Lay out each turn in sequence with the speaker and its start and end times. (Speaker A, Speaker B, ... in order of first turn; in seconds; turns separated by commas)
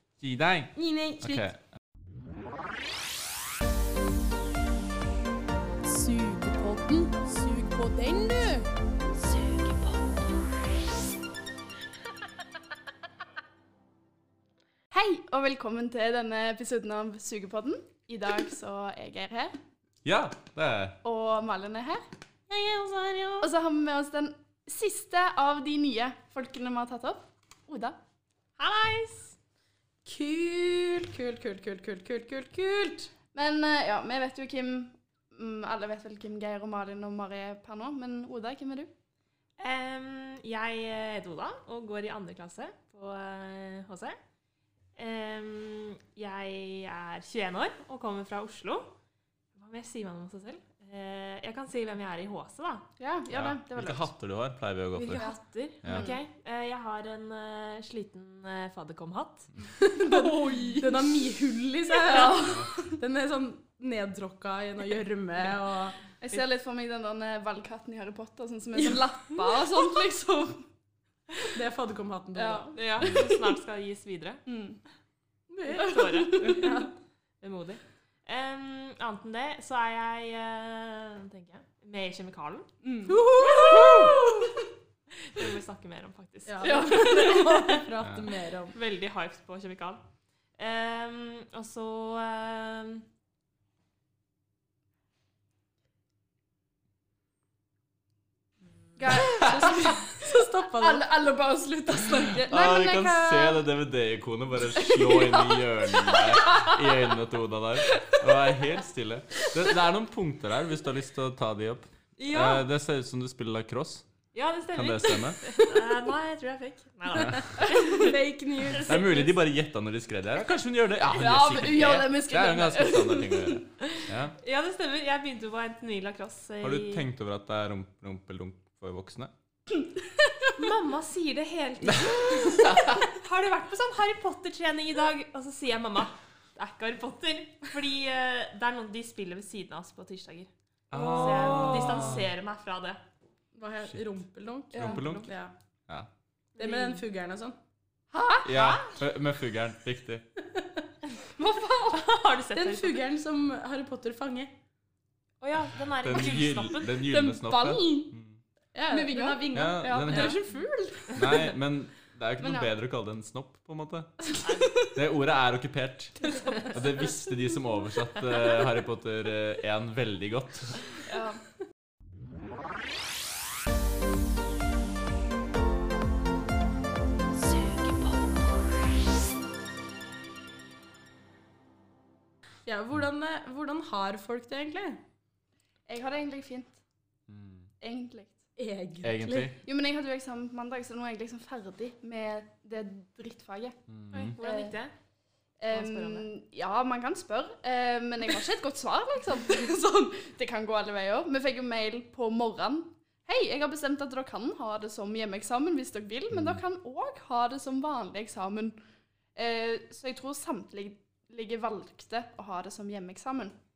Speaker A: 0.2-1.6, Speaker B: 0.8-1.5, Speaker B: 5.8-8.7, Speaker C: 14.9-19.6, Speaker A: 20.0-21.0, Speaker C: 21.0-22.1, Speaker B: 22.5-23.5, Speaker C: 23.4-28.0, Speaker D: 28.6-29.4, Speaker B: 30.1-33.1, Speaker C: 33.3-38.9, Speaker D: 39.6-44.2, Speaker D: 45.0-48.9, Speaker D: 49.5-52.9, Speaker C: 53.0-54.1, Speaker A: 53.3-55.2, Speaker D: 55.0-59.5, Speaker C: 55.1-56.2, Speaker A: 55.8-56.1, Speaker B: 59.8-66.0, Speaker C: 60.0-61.2, Speaker C: 62.0-63.0, Speaker C: 66.2-70.6, Speaker B: 71.5-72.7, Speaker C: 72.3-73.3, Speaker D: 72.7-74.4, Speaker C: 74.5-74.8, Speaker B: 75.5-76.9, Speaker D: 75.7-76.9, Speaker C: 76.3-76.8, Speaker D: 77.4-82.7, Speaker C: 82.8-84.5, Speaker B: 83.1-84.4, Speaker D: 83.4-84.3, Speaker D: 85.1-87.8, Speaker B: 86.5-88.8, Speaker C: 86.6-87.5, Speaker A: 88.0-88.2, Speaker D: 88.7-90.0, Speaker D: 90.6-93.0, Speaker C: 99.0-103.6, Speaker B: 99.4-101.0, Speaker A: 102.4-114.1, Speaker C: 104.8-106.8, Speaker D: 112.2-112.7, Speaker D: 114.3-118.2, Speaker A: 114.7-115.4, Speaker B: 117.6-119.2, Speaker C: 117.6-118.0, Speaker D: 118.7-119.2, Speaker A: 118.8-124.3, Speaker C: 121.1-123.6, Speaker D: 123.9-127.1, Speaker A: 126.6-129.3, Speaker D: 130.6-143.0, Speaker A: 131.8-133.0, Speaker A: 140.9-142.3, Speaker B: 143.6-145.5, Speaker A: 144.7-145.3, Speaker C: 144.8-145.1, Speaker D: 146.6-147.1, Speaker B: 146.6-147.6, Speaker C: 148.1-148.8, Speaker A: 148.4-150.3, Speaker B: 150.4-150.8, Speaker C: 151.4-152.1, Speaker D: 151.9-153.1, Speaker B: 152.6-154.5, Speaker D: 155.4-157.0, Speaker A: 156.0-158.4, Speaker C: 156.9-158.1, Speaker B: 158.7-160.4, Speaker C: 158.9-161.5, Speaker A: 159.5-160.4, Speaker A: 161.1-164.3, Speaker C: 162.4-162.7, Speaker D: 164.4-164.8, Speaker A: 164.9-170.9, Speaker C: 171.1-171.4, Speaker B: 182.7-185.0, Speaker C: 185.9-186.8, Speaker A: 187.3-187.7, Speaker C: 187.8-188.4, Speaker B: 188.6-189.5, Speaker A: 189.0-189.6, Speaker C: 189.6-193.8, Speaker A: 193.9-194.4, Speaker D: 194.1-194.9, Speaker C: 194.3-194.8, Speaker C: 195.6-208.8, Speaker D: 195.7-196.3, Speaker A: 206.3-206.6, Speaker C: 209.3-213.6